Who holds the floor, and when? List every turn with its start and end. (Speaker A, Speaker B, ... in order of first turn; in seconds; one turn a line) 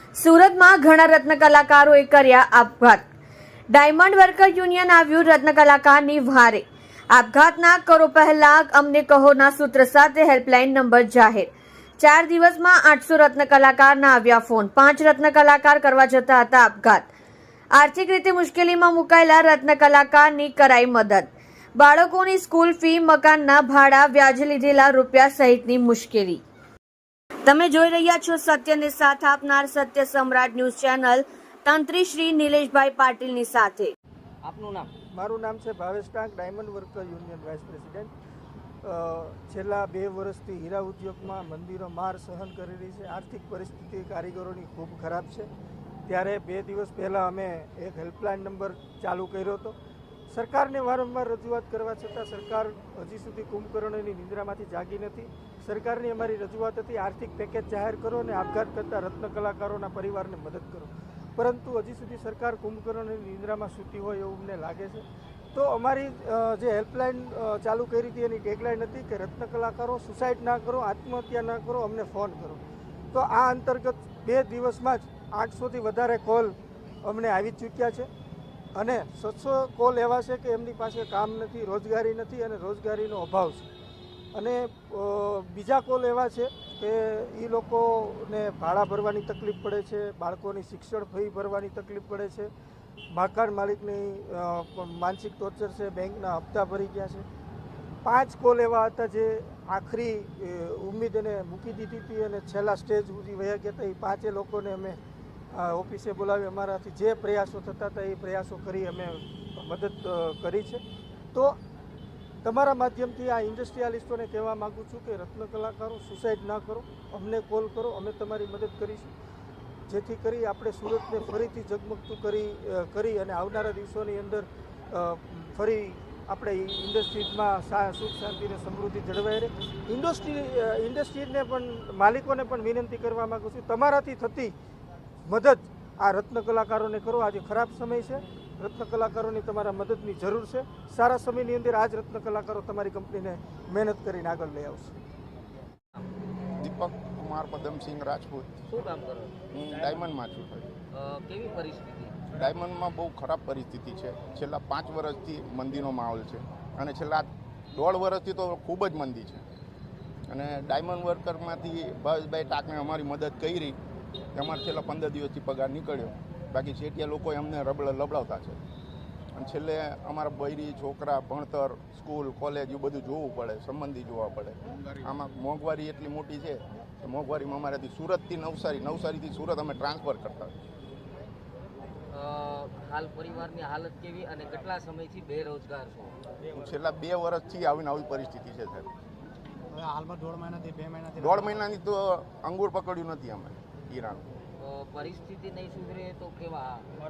Speaker A: 0.2-3.0
Speaker A: 3.7-17.1
Speaker A: 17.7-26.4
Speaker A: 27.5-33.9
Speaker B: 34.4-34.9
Speaker C: 35.1-38.1
Speaker C: 38.8-45.5
Speaker C: 46.1-49.8
Speaker C: 50.3-72.6
Speaker C: 73.1-78.1
Speaker C: 78.8-83.7
Speaker C: 84.3-92.5
Speaker C: 93.1-97.3
Speaker C: 98.0-105.0
Speaker C: 105.5-110.8
Speaker C: 112.4-119.1
Speaker C: 119.9-134.5
Speaker C: 135.3-145.0
Speaker D: 146.6-148.5
Speaker B: 148.7-149.4
Speaker D: 149.5-150.7
Speaker B: 150.9-152.2
Speaker D: 152.3-159.4
Speaker D: 160.3-163.8
Speaker D: 164.3-168.6
Speaker D: 169.3-180.5
Speaker B: 182.1-186.2
Speaker D: 186.5-188.9
Speaker E: 189.7-191.7
Speaker D: 191.2-194.3
Speaker B: 194.6-196.9